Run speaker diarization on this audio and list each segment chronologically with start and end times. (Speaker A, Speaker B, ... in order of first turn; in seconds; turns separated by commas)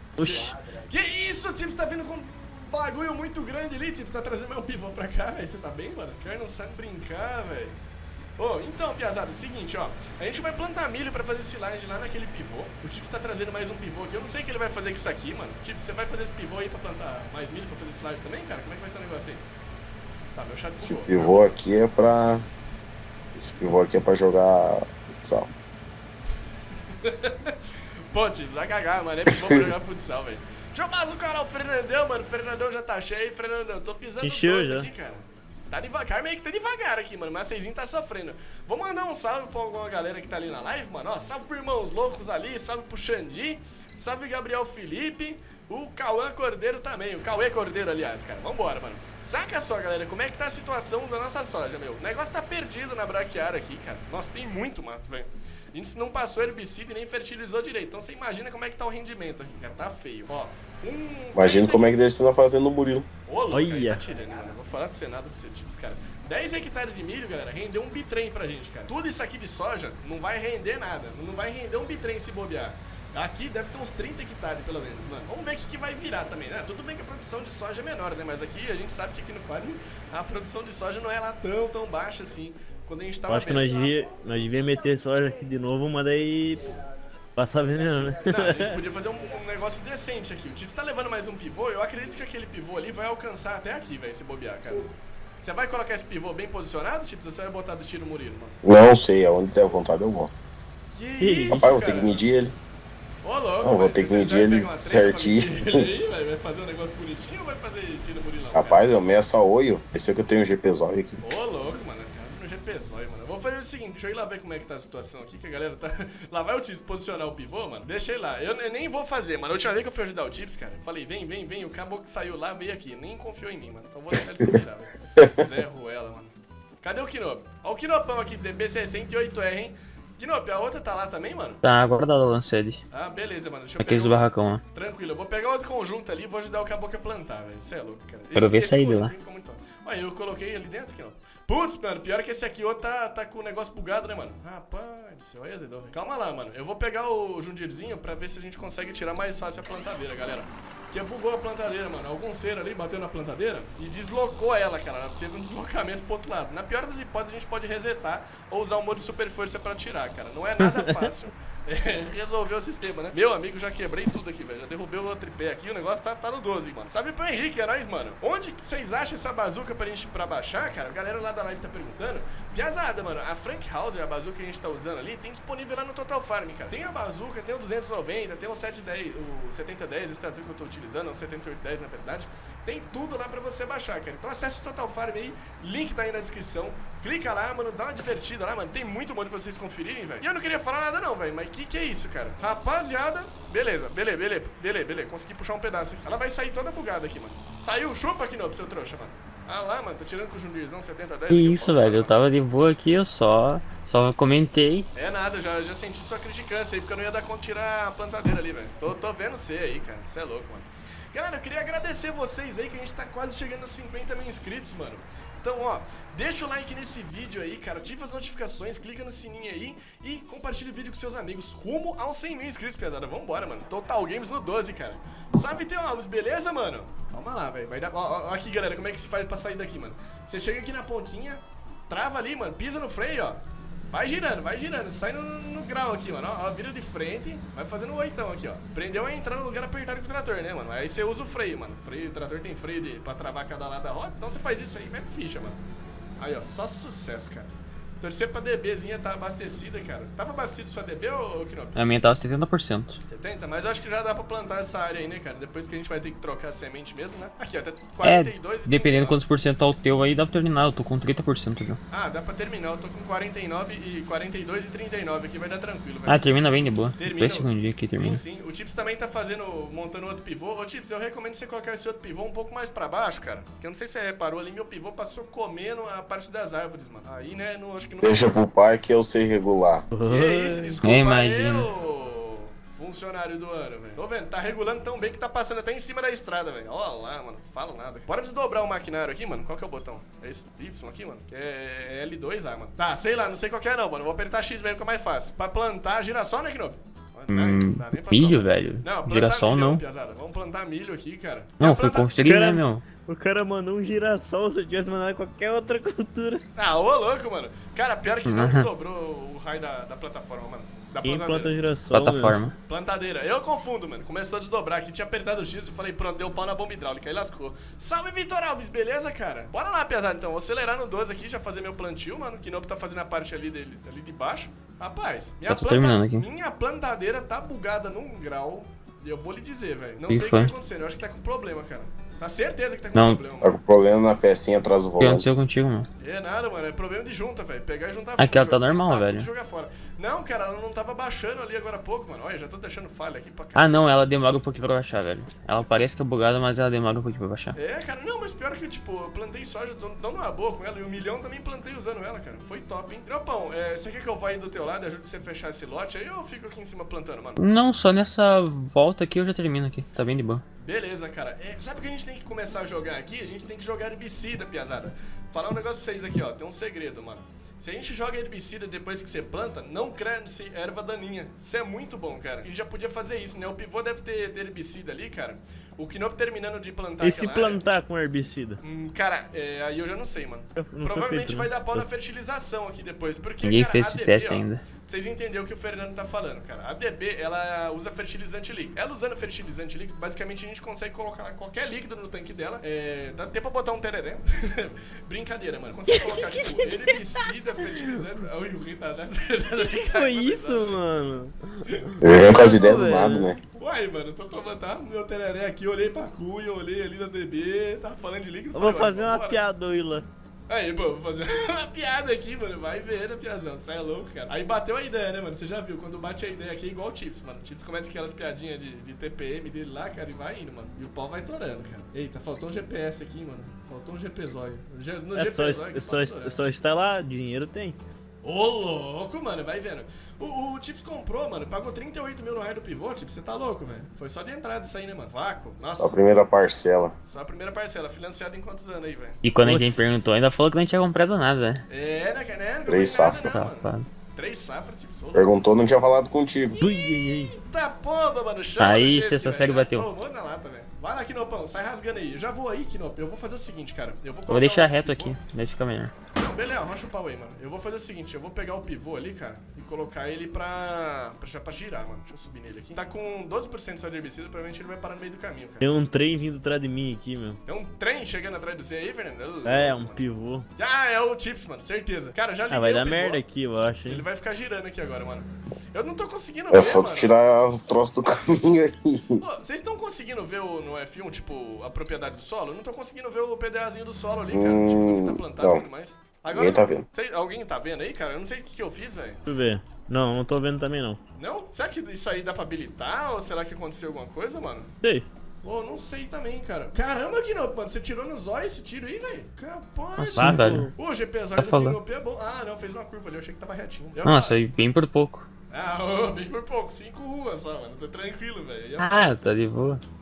Speaker A: 0.2-0.5, Speaker B: 0.2-7.8, Speaker B: 8.4-19.4, Speaker B: 20.4-21.6, Speaker C: 20.8-22.5, Speaker C: 23.4-25.5, Speaker B: 27.0-27.6, Speaker B: 28.1-62.0, Speaker A: 34.2-34.9, Speaker C: 61.3-63.1, Speaker B: 63.3-83.8, Speaker A: 63.5-64.0, Speaker A: 83.3-86.6, Speaker A: 87.4-88.8, Speaker B: 88.3-98.5, Speaker C: 98.6-100.3, Speaker B: 100.9-102.2, Speaker A: 101.2-101.7, Speaker C: 101.5-102.5, Speaker B: 103.2-108.8, Speaker C: 103.6-105.9, Speaker C: 108.5-111.2, Speaker B: 111.2-131.6, Speaker C: 125.2-125.5, Speaker D: 131.6-132.8, Speaker B: 132.9-202.2, Speaker D: 133.8-134.6, Speaker D: 138.3-139.1, Speaker D: 201.3-204.9, Speaker B: 204.9-245.6, Speaker B: 246.2-251.8, Speaker D: 251.8-253.0, Speaker B: 253.0-259.2, Speaker D: 258.0-261.8, Speaker B: 261.9-266.4, Speaker D: 266.1-268.2, Speaker B: 267.0-278.4, Speaker C: 278.0-279.9, Speaker A: 279.9-280.8, Speaker B: 280.0-302.1, Speaker D: 280.8-281.7, Speaker D: 297.3-299.8, Speaker D: 301.6-302.9, Speaker A: 302.2-306.4, Speaker B: 306.6-311.6, Speaker D: 308.2-308.7, Speaker A: 311.0-312.4, Speaker D: 311.9-312.6, Speaker B: 312.7-333.6, Speaker D: 325.5-326.2, Speaker D: 330.1-330.5, Speaker D: 332.9-333.2, Speaker C: 333.4-335.3, Speaker D: 335.0-335.9, Speaker B: 336.0-343.9, Speaker D: 338.2-339.3, Speaker D: 343.6-347.6, Speaker B: 347.6-357.4, Speaker D: 357.4-360.4, Speaker B: 360.6-377.6, Speaker A: 377.0-378.6, Speaker B: 378.6-400.9, Speaker A: 380.6-381.9, Speaker D: 383.4-384.6, Speaker A: 396.0-396.8, Speaker A: 399.6-403.3, Speaker B: 401.7-402.5, Speaker C: 402.0-403.4, Speaker B: 403.6-409.4, Speaker A: 408.5-410.1, Speaker B: 410.5-426.5, Speaker A: 425.1-427.8, Speaker B: 428.2-436.0, Speaker C: 435.8-436.9, Speaker B: 437.0-439.2, Speaker D: 439.2-441.6, Speaker A: 439.4-440.0, Speaker B: 441.7-445.3, Speaker C: 442.7-443.3, Speaker D: 443.2-443.9, Speaker C: 445.1-446.6, Speaker A: 446.6-447.4, Speaker B: 447.2-455.2, Speaker D: 448.6-449.9, Speaker D: 454.3-455.9, Speaker B: 456.1-465.8, Speaker A: 465.6-467.4, Speaker B: 467.5-470.0, Speaker A: 469.4-470.5, Speaker B: 470.6-473.2, Speaker A: 472.5-474.1, Speaker B: 473.9-477.1, Speaker C: 476.5-479.2, Speaker B: 479.2-489.2, Speaker C: 484.3-485.6, Speaker C: 486.3-486.8, Speaker A: 489.3-491.0, Speaker B: 491.2-494.7, Speaker A: 494.8-495.1, Speaker B: 495.4-504.4, Speaker D: 500.0-500.7, Speaker A: 500.2-500.7, Speaker D: 501.4-501.8, Speaker D: 504.0-505.3, Speaker B: 505.5-509.3, Speaker D: 508.8-509.8